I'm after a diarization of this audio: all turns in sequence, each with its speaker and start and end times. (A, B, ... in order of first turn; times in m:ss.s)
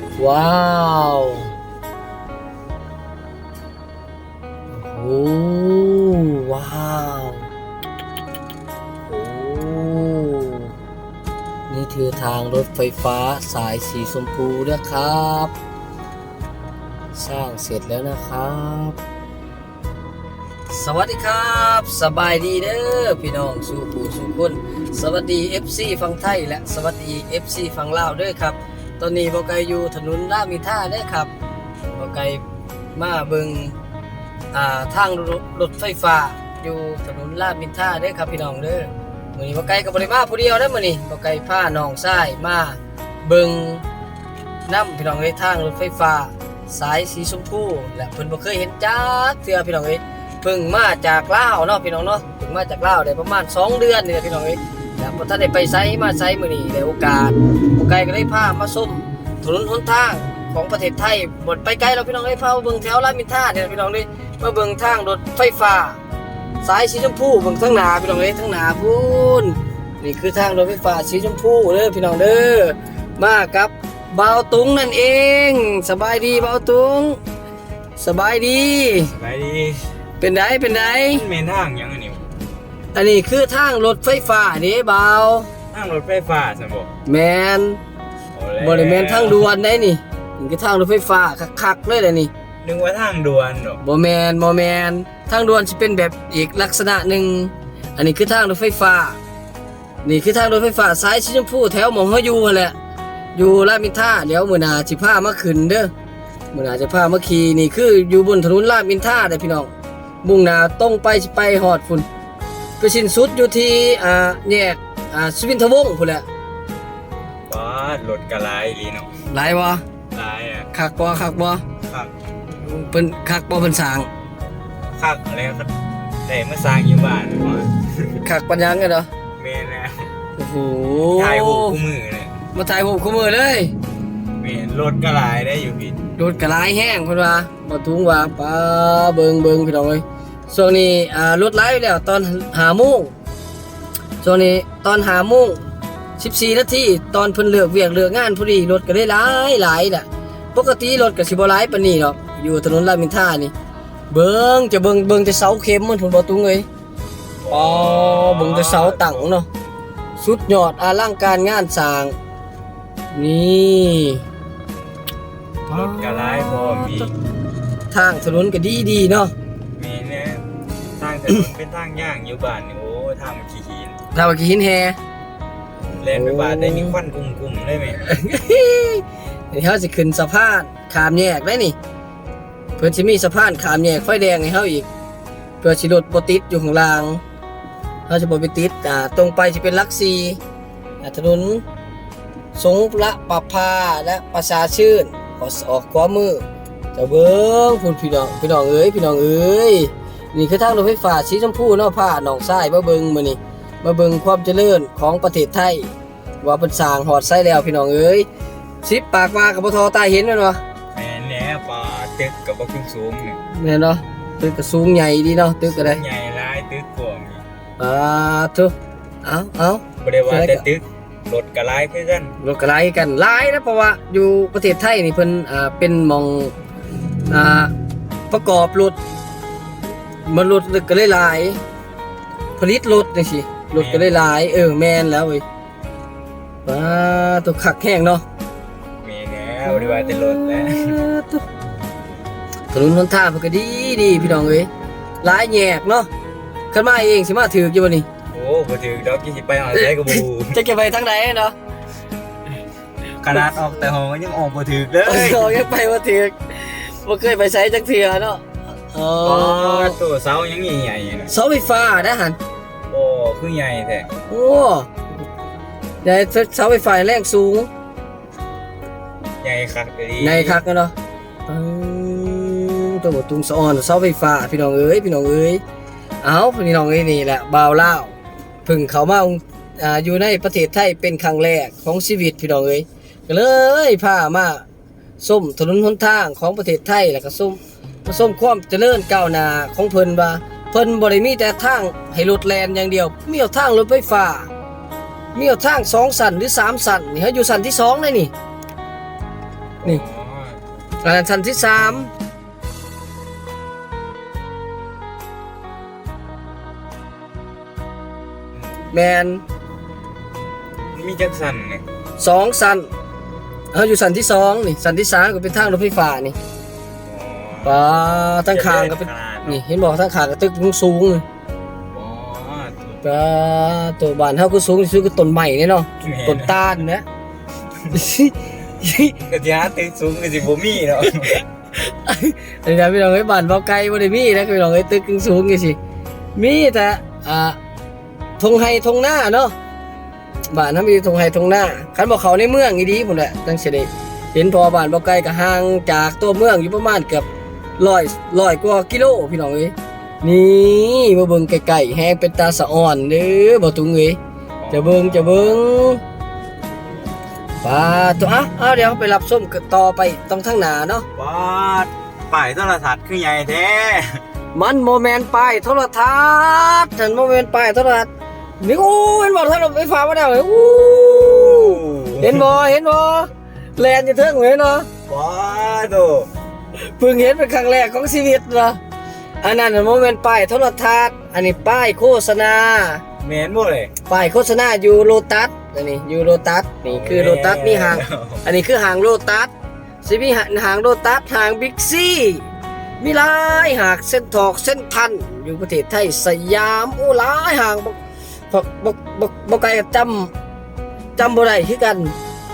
0:00.2-0:01.5 A
0:04.7-0:07.5 A
0:09.1-0:10.7 A
0:11.7-0:15.5 A
0:17.2-0:19.0 A
0:20.7-0:31.3 A
0:32.0-0:32.4 A
0:33.0-0:33.8 A
0:34.5-0:43.8 A
0:44.7-1:06.0 A
1:06.6-1:17.2 A
1:18.0-1:19.1 A
1:19.2-1:19.9 B
1:20.2-1:21.2 A
1:21.0-1:22.3 B
1:22.9-1:25.5 A
1:25.7-1:26.9 B
1:27.1-1:27.8 A
1:28.3-1:29.5 B
1:28.6-1:32.3 A
1:32.6-1:33.8 B
1:33.8-1:39.2 A
1:40.0-1:42.8 A
1:43.4-1:45.9 A
1:46.5-1:49.7 A
1:50.2-1:52.1 A
1:52.8-1:56.2 A
1:57.5-1:59.1 B
1:59.3-1:59.8 A
2:00.1-2:00.7 B
2:00.7-2:01.6 A
2:01.9-2:02.1 B
2:02.6-2:04.1 A
2:05.0-2:05.7 B
2:06.3-2:08.2 B
2:08.2-2:09.1 A
2:09.4-2:10.1 B
2:10.4-2:11.8 A
2:11.1-2:12.3 B
2:12.5-2:13.7 A
2:14.4-2:16.0 B
2:16.2-2:23.1 A
2:24.2-2:25.6 A
2:26.2-2:33.5 A
2:34.1-2:36.7 A
2:37.4-2:39.3 B
2:37.5-2:39.5 A
2:40.2-2:42.2 A
2:43.1-2:44.2 A
2:45.7-2:47.1 A
2:45.7-2:47.1 B
2:47.9-2:49.3 A
2:49.8-2:50.4 B
2:51.0-2:54.0 B
2:54.1-2:55.0 A
2:56.0-2:58.0 B
2:56.1-2:57.0 A
2:58.0-3:01.8 A
3:02.8-3:04.9 A
3:05.6-3:07.2 A
3:08.1-3:10.4 A
3:11.0-3:11.6 A
3:12.6-3:16.4 A
3:17.0-3:28.3 A
3:28.8-3:30.6 A
3:30.9-3:33.4 B
3:33.5-3:36.0 A
3:35.7-3:37.4 B
3:37.8-3:40.6 A
3:40.0-3:42.4 B
3:42.4-3:46.5 A
3:47.3-3:47.7 A
3:48.3-3:49.0 A
3:50.3-3:51.6 A
3:52.6-3:55.4 A
3:53.7-3:54.2 B
3:56.7-3:58.2 A
3:59.0-4:01.0 B
3:59.7-4:01.4 A
4:02.7-4:04.7 A
4:05.2-4:06.1 A
4:06.7-4:08.1 A
4:08.3-4:10.6 B
4:09.8-4:11.6 A
4:13.2-4:15.6 B
4:15.0-4:20.0 A
4:19.2-4:21.3 B
4:21.3-4:22.4 A
4:22.9-4:24.1 B
4:24.3-4:24.9 A
4:26.0-4:27.7 A
4:29.4-4:30.6 B
4:30.2-4:30.9 A
4:31.5-4:35.6 A
4:36.2-4:44.6 A
4:45.2-4:54.5 A
4:55.4-4:58.3 A
4:59.8-5:00.6 B
5:01.0-5:02.1 A
5:08.9-5:09.4 A
5:10.9-5:11.8 B
5:12.2-5:12.9 A
5:13.7-5:16.4 A
5:17.1-5:17.9 B
5:17.6-5:21.2 A
5:18.5-5:19.6 B
5:21.9-5:23.0 B
5:23.0-5:27.0 A
5:26.0-5:26.6 B
5:27.9-5:29.2 A
5:29.3-5:31.4 B
5:31.8-5:35.8 A
5:36.4-5:37.6 A
5:38.4-5:39.5 A
5:40.5-5:47.3 A
5:47.8-5:54.2 A
5:54.6-5:55.6 B
5:54.7-5:56.0 A
5:57.6-6:01.1 A
6:01.2-6:04.2 B
6:04.5-6:14.9 A
6:10.5-6:12.5 B
6:15.1-6:16.3 B
6:16.8-6:18.8 A
6:19.4-6:23.0 A
6:23.2-6:23.9 B
6:24.1-6:29.5 A
6:26.8-6:28.4 B
6:30.0-6:32.5 A
6:33.0-6:38.0 A
6:38.5-6:40.3 A
6:41.2-6:42.2 A